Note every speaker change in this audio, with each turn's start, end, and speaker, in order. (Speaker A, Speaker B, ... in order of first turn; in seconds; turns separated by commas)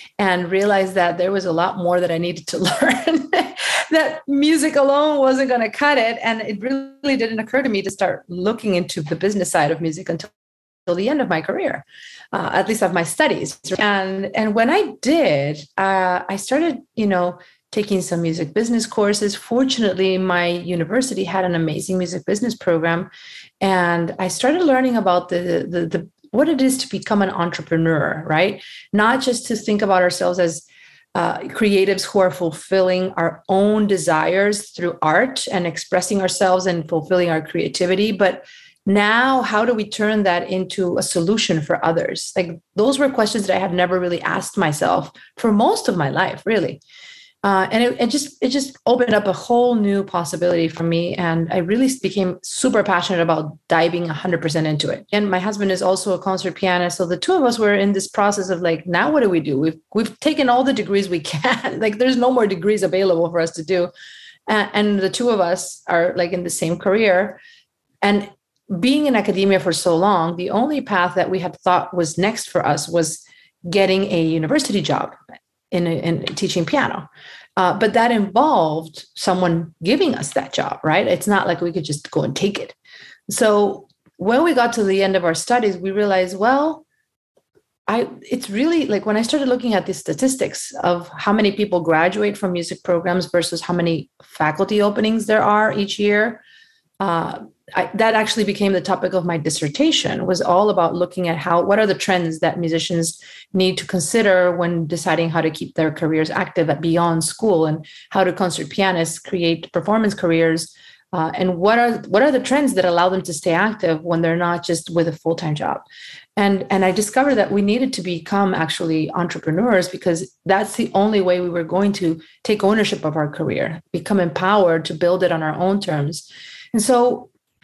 Speaker A: 0.2-10.3, Speaker A: 10.9-23.1, Speaker A: 23.6-46.8, Speaker A: 47.4-63.9, Speaker A: 64.5-67.4, Speaker A: 68.0-75.2, Speaker A: 75.7-82.7, Speaker A: 83.3-86.8, Speaker A: 87.9-96.4, Speaker A: 97.0-127.3